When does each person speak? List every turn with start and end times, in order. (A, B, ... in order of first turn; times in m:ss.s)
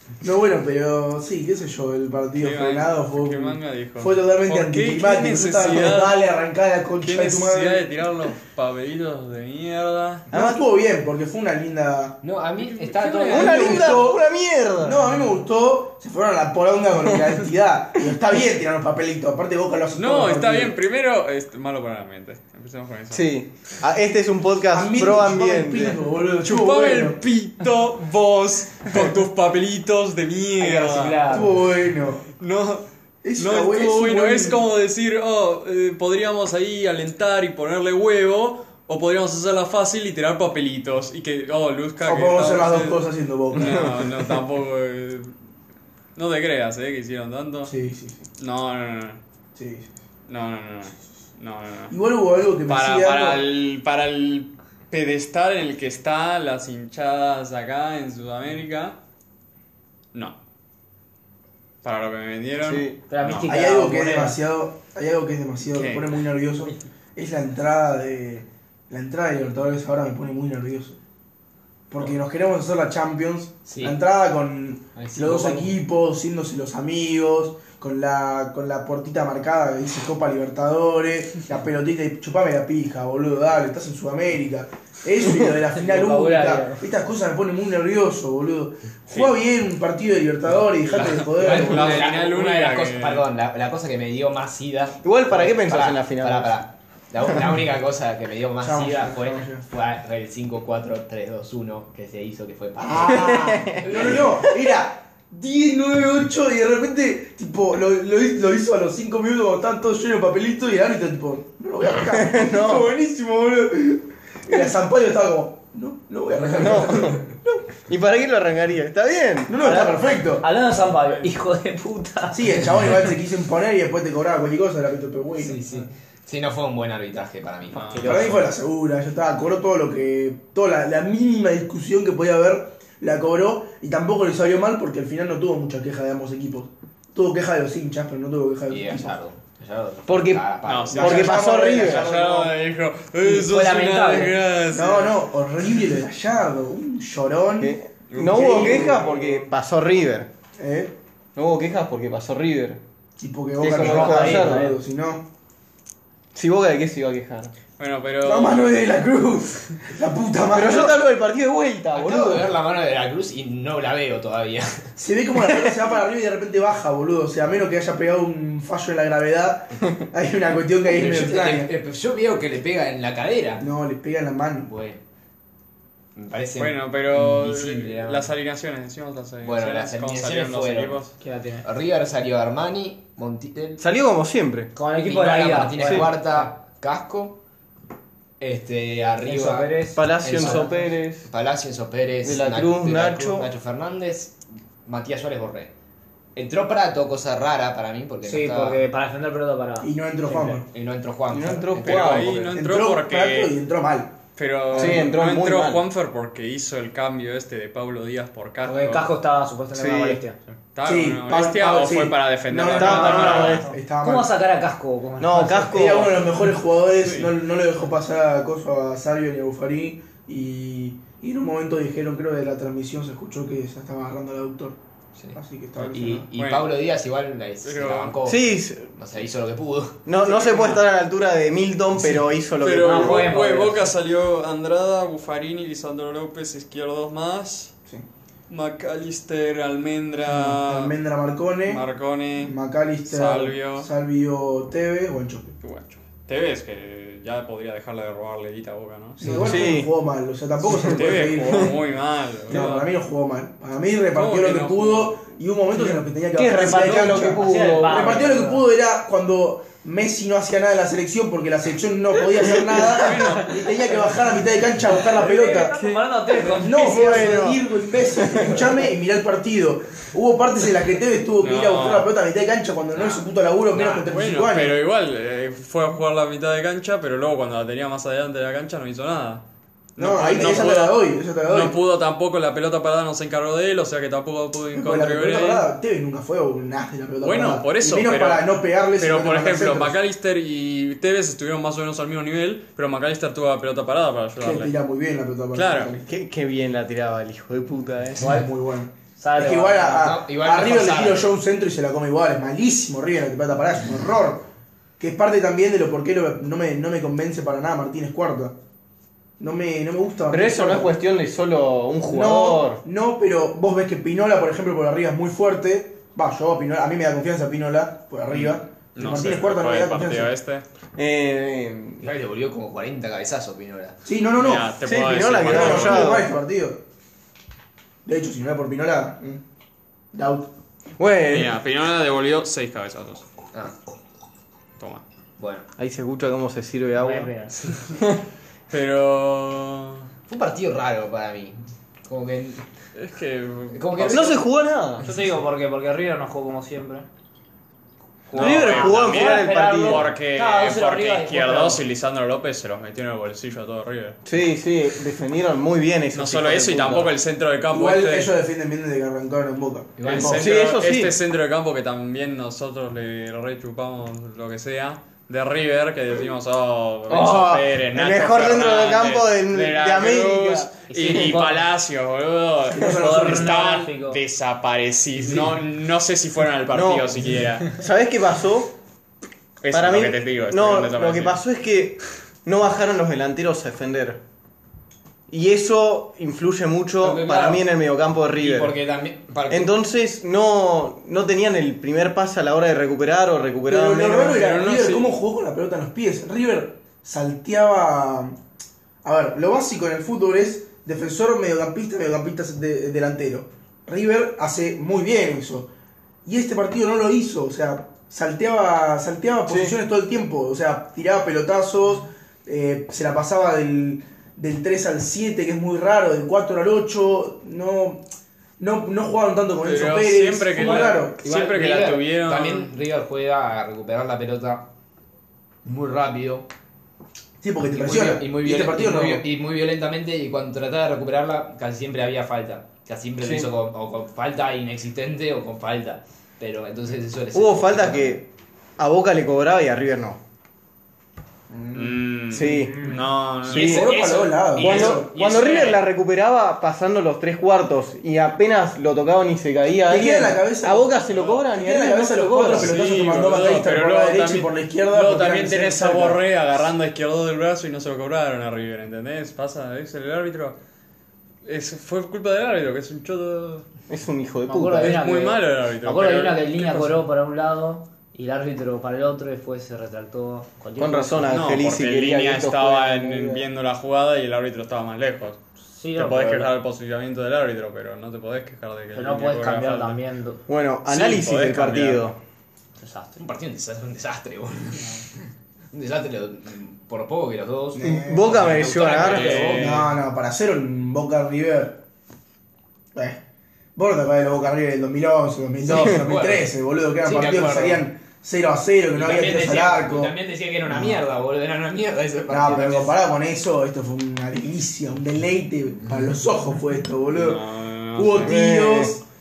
0:00.2-0:07.8 A
0:02.4-0:06.2 B
0:07.0-0:10.3 B
0:10.3-0:12.2 A
0:10.3-0:10.7 C
0:12.2-0:14.0 D
0:13.2-0:14.2 A
0:13.3-0:15.1 C
0:14.8-0:20.7 A
0:19.9-0:23.3 B
0:23.1-0:26.0 C
0:24.7-0:27.2 A
0:26.4-0:31.5 B
0:30.6-0:31.6 E
0:31.3-0:32.2 A
0:32.4-0:32.8 B
0:33.2-0:34.6 A
0:33.4-0:43.0 B
0:42.0-0:44.0 A
0:43.5-0:45.3 B
0:43.6-0:43.9 C
0:46.2-0:47.7 B
0:47.7-0:48.2 A
0:48.4-0:49.2 B
0:49.6-0:49.9 A
0:50.3-0:52.0 B
0:51.9-0:53.4 A
0:52.7-0:59.0 B
1:01.8-1:03.5 B
1:02.6-1:03.0 C
1:03.1-1:04.4 E
1:03.5-1:11.0 A
1:05.7-1:06.2 B
1:11.9-1:32.1 A
1:13.6-1:14.0 D
1:15.0-1:15.7 D
1:25.8-1:26.8 E
1:30.8-1:33.2 B
1:31.4-1:44.3 D
1:35.0-1:36.6 C
1:38.6-1:39.6 A
1:42.8-1:57.7 A
1:43.1-1:44.7 C
1:52.0-1:52.9 C
1:56.5-1:57.2 C
1:57.9-1:59.6 C
1:59.5-2:00.5 A
1:59.6-2:02.5 E
2:02.3-2:05.6 A
2:05.4-2:08.4 D
2:07.8-2:08.2 B
2:08.0-2:19.2 A
2:08.0-2:08.4 C
2:18.7-2:21.4 D
2:20.1-2:20.4 C
2:20.7-2:25.3 B
2:20.9-2:22.5 A
2:21.0-2:22.2 C
2:23.2-2:24.4 E
2:24.7-2:29.5 A
2:27.6-2:30.3 C
2:28.1-2:28.9 B
2:30.6-2:31.0 A
2:31.4-2:32.8 C
2:33.2-2:35.2 A
2:33.6-2:34.8 C
2:33.8-2:34.8 E
2:36.3-2:37.5 C
2:37.8-2:38.7 B
2:38.2-2:41.0 A
2:40.5-2:42.5 C
2:41.9-2:44.8 D
2:45.0-2:51.7 A
2:50.9-2:53.7 D
2:53.6-2:54.7 A
2:54.6-2:55.0 D
2:56.2-2:58.3 D
2:56.6-3:01.2 B
2:59.4-3:01.1 D
3:01.2-3:01.7 E
3:01.6-3:03.8 D
3:03.8-3:04.7 C
3:04.8-3:06.3 E
3:05.0-3:07.4 D
3:05.8-3:06.1 C
3:08.4-3:15.7 D
3:09.2-3:10.8 E
3:10.0-3:11.3 C
3:12.2-3:13.5 C
3:16.4-3:18.8 D
3:18.2-3:19.9 E
3:19.8-3:20.7 A
3:20.3-3:22.4 D
3:21.3-3:22.6 C
3:21.8-3:23.5 B
3:22.6-3:24.2 A
3:24.4-3:29.1 B
3:24.7-3:25.1 A
3:24.8-3:25.8 C
3:28.6-3:30.6 E
3:29.7-3:30.2 C
3:30.8-3:33.7 B
3:30.9-3:34.4 A
3:32.5-3:33.7 C
3:32.7-3:36.1 E
3:35.2-3:36.3 C
3:35.7-3:44.8 A
3:37.0-3:37.3 B
3:45.2-3:50.0 D
3:45.4-3:46.3 A
3:46.4-3:46.7 B
3:47.6-3:48.2 B
3:48.2-3:48.9 C
3:50.1-3:53.3 C
3:50.2-3:50.8 B
3:52.6-3:57.7 B
3:52.8-3:53.9 E
3:58.5-4:00.9 B
4:00.3-4:01.8 A
4:01.7-4:03.9 B
4:02.4-4:05.5 A
4:05.6-4:09.6 B
4:09.2-4:11.8 A
4:09.2-4:09.9 C
4:10.7-4:12.9 B
4:11.4-4:11.7 C
4:12.5-4:25.7 A
4:14.1-4:15.2 B
4:15.8-4:18.3 C
4:16.4-4:18.6 E
4:22.4-4:23.4 C
4:22.8-4:23.6 B
4:25.0-4:27.4 E
4:25.6-4:26.5 B
4:26.5-4:34.8 A
4:26.6-4:27.6 C
4:28.2-4:28.8 C
4:31.4-4:32.1 B
4:32.9-4:33.3 D
4:33.7-4:39.4 B
4:40.0-4:45.7 B
4:40.0-4:41.8 A
4:44.7-4:50.0 A
4:47.2-4:54.8 B
4:54.4-4:56.0 A
4:55.5-4:55.9 B
4:56.1-4:58.3 C
4:58.2-4:58.5 E
4:58.2-5:04.5 A
4:59.2-5:00.1 E
4:59.8-5:01.3 D
5:05.0-5:08.6 A
5:09.4-5:10.9 A
5:10.3-5:12.8 C
5:12.1-5:20.3 A
5:18.3-5:20.6 B
5:21.0-5:22.0 C
5:22.0-5:24.0 D
5:24.0-5:26.8 A
5:24.4-5:26.2 B
5:24.8-5:26.3 C
5:28.1-5:29.4 A
5:30.1-5:30.5 A
5:31.0-5:31.5 C
5:31.2-5:33.2 B
5:34.8-5:35.0 B
5:35.4-5:35.7 D
5:35.8-5:37.3 C
5:37.0-5:37.6 E
5:38.7-5:40.1 B
5:40.3-5:42.7 D
5:43.0-5:44.3 B
5:43.7-5:44.4 D
5:44.1-5:45.1 C
5:45.0-5:47.1 E
5:48.3-5:51.8 E
5:48.3-5:54.2 B
5:48.4-5:50.1 C
5:54.2-5:57.1 C
5:56.1-5:58.3 B
5:57.7-6:00.5 A
6:00.0-6:00.4 D
6:00.0-6:17.8 B
6:00.4-6:01.2 C
6:07.1-6:11.3 C
6:10.9-6:11.6 E
6:12.7-6:13.6 A
6:12.9-6:14.2 E
6:16.7-6:18.8 C
6:19.6-6:21.4 B
6:19.7-6:24.2 C
6:25.3-6:28.8 C
6:27.0-6:27.6 D
6:28.4-6:29.7 D
6:29.5-6:34.4 C
6:33.7-6:38.4 A
6:34.2-6:35.1 B
6:39.0-6:45.7 A
6:46.2-6:58.0 A
6:49.5-6:49.8 C
6:58.6-7:01.2 A
6:59.6-7:02.7 B
7:00.6-7:04.7 D
7:05.6-7:06.5 D
7:07.4-7:09.2 A
7:07.7-7:18.2 D
7:13.2-7:13.5 C
7:17.3-7:20.2 C
7:21.5-7:22.0 A
7:21.7-7:23.9 B
7:22.3-7:22.9 C
7:23.5-7:25.8 D
7:23.5-7:25.1 A
7:23.5-7:23.9 C
7:24.6-7:32.8 C
7:29.9-7:36.2 A
7:32.4-7:40.6 B
7:41.4-7:43.7 B
7:43.9-7:45.0 C
7:44.5-7:51.4 E
7:44.8-7:47.0 B
7:50.8-7:53.4 C
7:51.3-7:55.4 B
7:55.7-7:56.5 E
7:56.0-8:00.0 B
7:58.9-8:00.4 E
8:00.5-8:02.2 C
8:00.9-8:02.1 B
8:02.8-8:03.2 E
8:03.2-8:05.0 D
8:05.7-8:09.8 D
8:07.8-8:08.6 A
8:07.8-8:09.6 C
8:08.9-8:09.9 B
8:09.4-8:11.8 A
8:13.0-8:13.2 A
8:13.8-8:20.2 A
8:15.6-8:16.5 D
8:17.0-8:17.8 D
8:18.9-8:23.0 D
8:20.7-8:21.0 A
8:22.3-8:27.4 A
8:27.1-8:28.4 B
8:28.0-8:29.0 A
8:28.2-8:29.0 C